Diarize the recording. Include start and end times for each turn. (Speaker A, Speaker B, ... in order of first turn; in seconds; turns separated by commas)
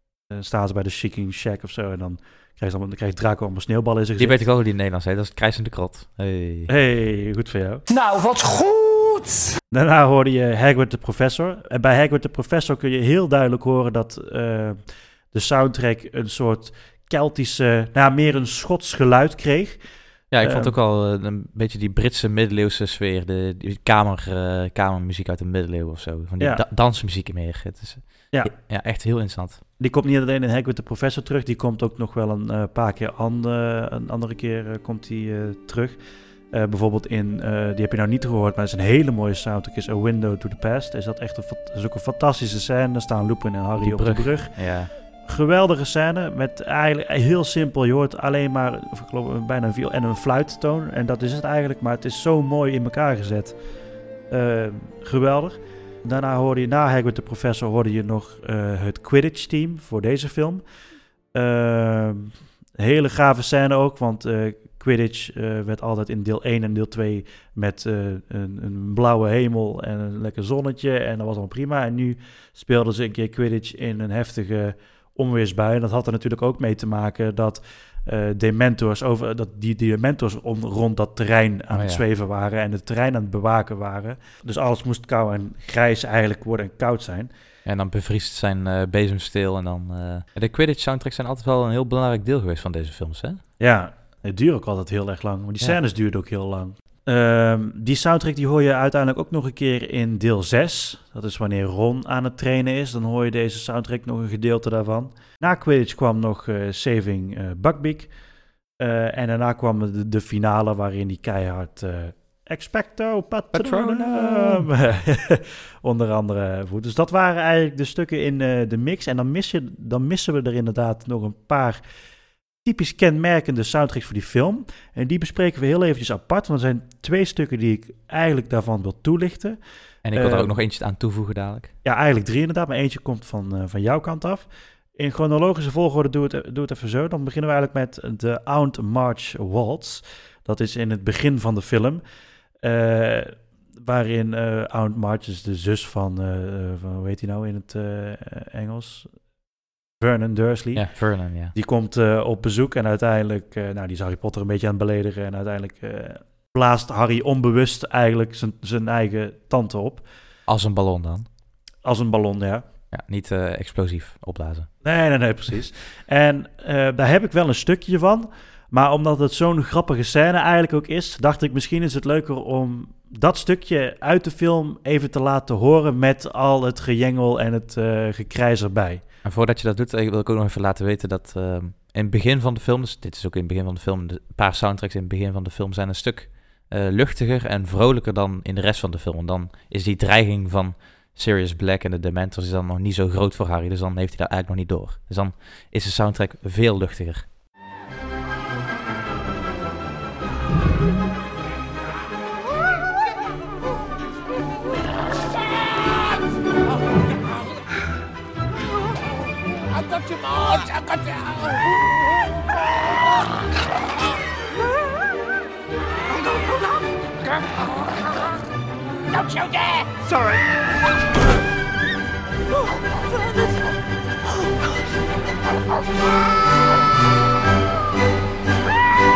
Speaker A: 0.3-4.4, Speaker B: 4.2-6.7, Speaker A: 6.7-7.8, Speaker C: 7.9-9.5, Speaker A: 9.7-14.8, Speaker A: 15.3-19.8, Speaker B: 20.3-29.6, Speaker A: 20.4-20.7, Speaker A: 29.8-36.0, Speaker A: 36.5-44.7, Speaker B: 43.8-44.9, Speaker A: 45.3-53.6, Speaker A: 54.3-60.6, Speaker A: 61.3-87.3, Speaker B: 81.7-82.0, Speaker B: 87.7-93.4, Speaker A: 93.6-108.1, Speaker A: 108.8-121.8, Speaker B: 113.5-114.8, Speaker A: 122.7-129.6, Speaker B: 130.1-131.7, Speaker A: 130.1-130.5, Speaker A: 131.8-142.0, Speaker A: 142.6-149.1, Speaker A: 150.0-160.1, Speaker B: 150.8-151.5, Speaker B: 160.5-161.3, Speaker A: 161.8-162.6, Speaker B: 162.9-164.7, Speaker A: 164.8-179.0, Speaker B: 179.2-197.3, Speaker C: 209.7-211.7, Speaker C: 216.2-218.0, Speaker C: 219.1-220.4